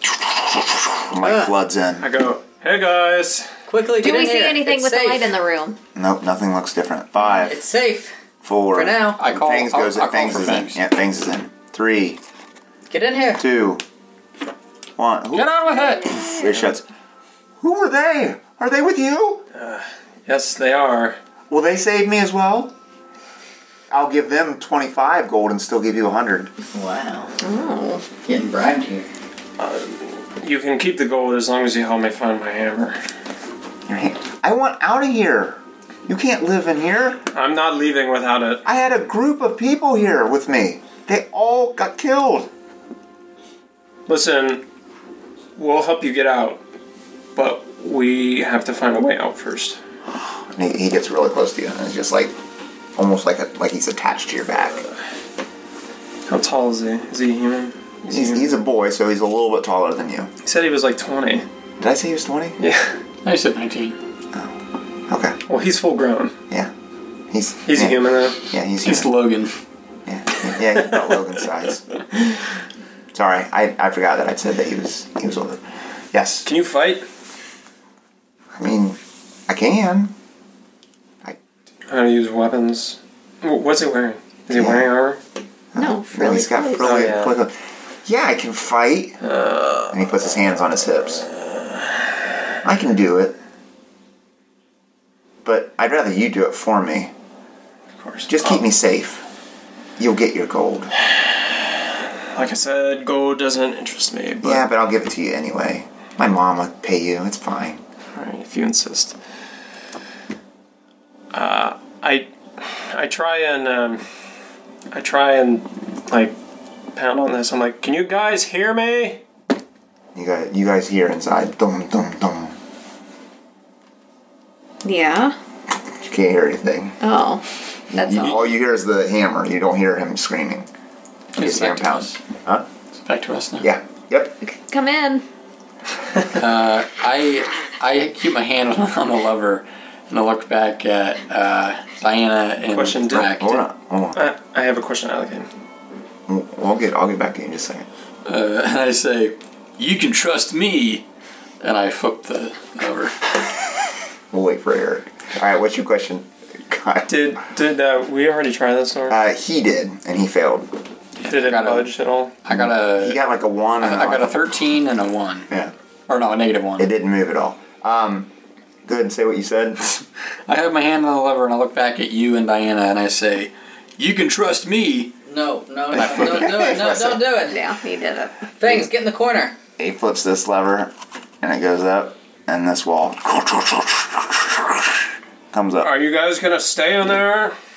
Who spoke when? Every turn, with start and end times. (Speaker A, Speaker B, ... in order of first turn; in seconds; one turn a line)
Speaker A: 0.9-2.1
Speaker B: 1.2-1.5
Speaker C: 2.0-3.5
Speaker B: 3.7-5.3
Speaker D: 4.0-5.8
Speaker A: 6.0-7.6
Speaker B: 7.4-8.2
Speaker A: 8.4-12.2
Speaker B: 8.7-9.2
Speaker E: 9.2-10.8
Speaker B: 12.9-13.4
Speaker A: 13.4-13.8
Speaker A: 15.0-16.8
Speaker E: 15.3-16.2
Speaker A: 17.6-19.4
Speaker C: 19.5-21.2
Speaker A: 21.5-22.7
Speaker A: 23.9-26.5
Speaker B: 26.7-27.4
Speaker D: 27.4-28.1
Speaker B: 28.2-29.1
Speaker C: 29.6-33.0
Speaker A: 33.9-37.2
Speaker C: 37.3-38.6
Speaker A: 38.6-42.5
Speaker C: 44.1-44.6
Speaker C: 45.6-46.6
Speaker C: 47.4-49.8
Speaker A: 50.5-52.3
Speaker A: 53.0-54.8
Speaker C: 56.3-58.5
Speaker A: 58.1-60.3
Speaker C: 60.4-61.5
Speaker A: 61.8-62.6
Speaker C: 62.6-62.9
Speaker E: 63.2-64.0
Speaker A: 65.1-65.4
Speaker C: 65.5-66.3
Speaker A: 67.3-69.1
Speaker C: 67.7-68.4
Speaker E: 68.8-69.5
Speaker A: 70.1-71.9
Speaker A: 73.1-76.5
Speaker C: 76.5-77.0
Speaker A: 78.5-80.2
Speaker C: 81.9-85.2
Speaker A: 84.5-84.9
Speaker A: 85.7-89.2
Speaker D: 85.8-87.2
Speaker C: 86.8-87.3
Speaker C: 89.2-90.2
Speaker A: 89.9-91.3
Speaker C: 91.2-92.0
Speaker A: 92.6-93.4
Speaker A: 95.4-97.1
Speaker C: 98.0-98.6
Speaker A: 98.3-99.2
Speaker A: 100.0-100.9
Speaker C: 102.3-104.7
Speaker A: 104.4-107.8
Speaker C: 108.2-109.2
Speaker C: 111.3-114.0
Speaker C: 114.9-116.3
Speaker C: 117.0-119.2
Speaker A: 120.2-122.6
Speaker D: 124.8-125.4
Speaker A: 126.0-127.0
Speaker D: 127.0-128.5
Speaker A: 127.9-130.7
Speaker A: 131.4-132.7
Speaker E: 131.4-132.2
Speaker E: 133.0-133.7
Speaker A: 133.6-134.4
Speaker D: 134.4-135.2
Speaker E: 136.3-143.6
Speaker C: 142.7-143.4
Speaker A: 143.2-144.2
Speaker C: 144.2-145.5
Speaker A: 146.3-147.9
Speaker E: 148.3-151.1
Speaker E: 151.6-153.1
Speaker A: 154.3-157.1
Speaker C: 157.1-159.2
Speaker A: 159.1-160.7
Speaker E: 161.2-161.9
Speaker C: 161.2-162.3
Speaker E: 162.4-163.2
Speaker A: 162.5-164.5
Speaker E: 163.8-165.5
Speaker E: 166.1-166.9
Speaker A: 166.8-168.3
Speaker A: 168.9-170.0
Speaker E: 170.5-175.1
Speaker B: 175.2-177.6
Speaker A: 175.9-177.2
Speaker E: 176.0-176.5
Speaker D: 177.4-178.5
Speaker B: 178.6-179.6
Speaker A: 179.8-184.8
Speaker A: 185.5-185.9
Speaker C: 185.8-187.6